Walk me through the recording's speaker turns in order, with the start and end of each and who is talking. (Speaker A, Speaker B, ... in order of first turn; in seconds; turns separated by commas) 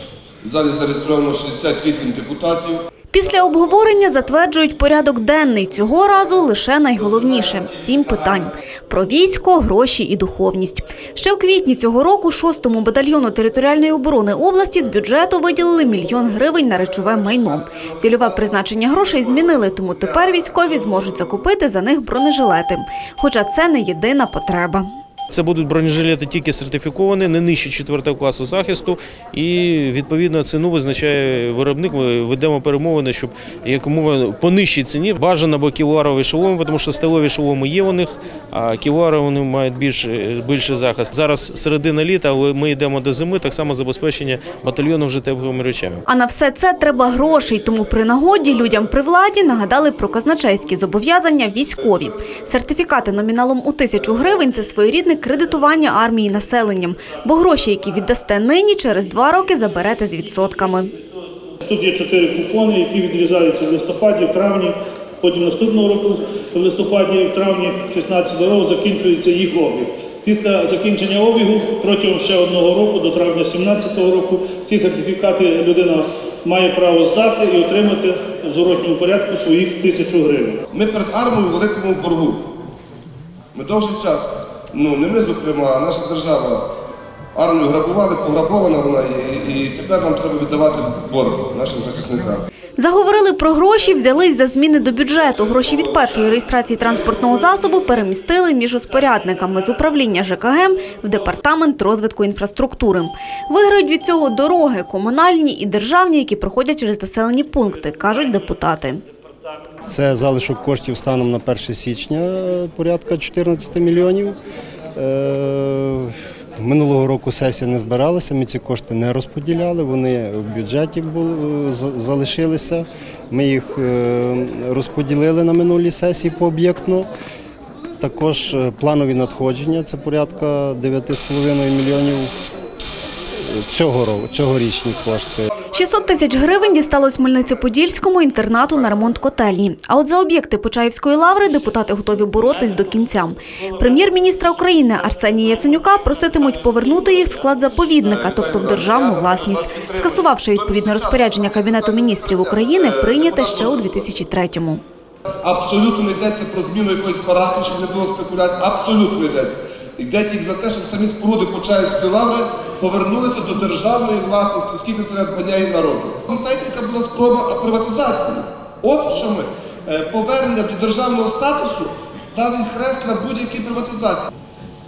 Speaker A: 0.4-2.8, Speaker B: 3.1-24.9, Speaker C: 25.3-46.0, Speaker B: 46.1-60.9, Speaker D: 61.6-80.6, Speaker A: 80.7-82.5, Speaker A: 83.5-86.6, Speaker A: 87.3-92.5, Speaker B: 92.8-109.0, Speaker E: 109.8-114.3, Speaker E: 115.0-127.1, Speaker E: 128.0-132.3, Speaker E: 133.4-135.5, Speaker B: 135.7-154.8, Speaker A: 148.7-150.0, Speaker A: 155.4-174.3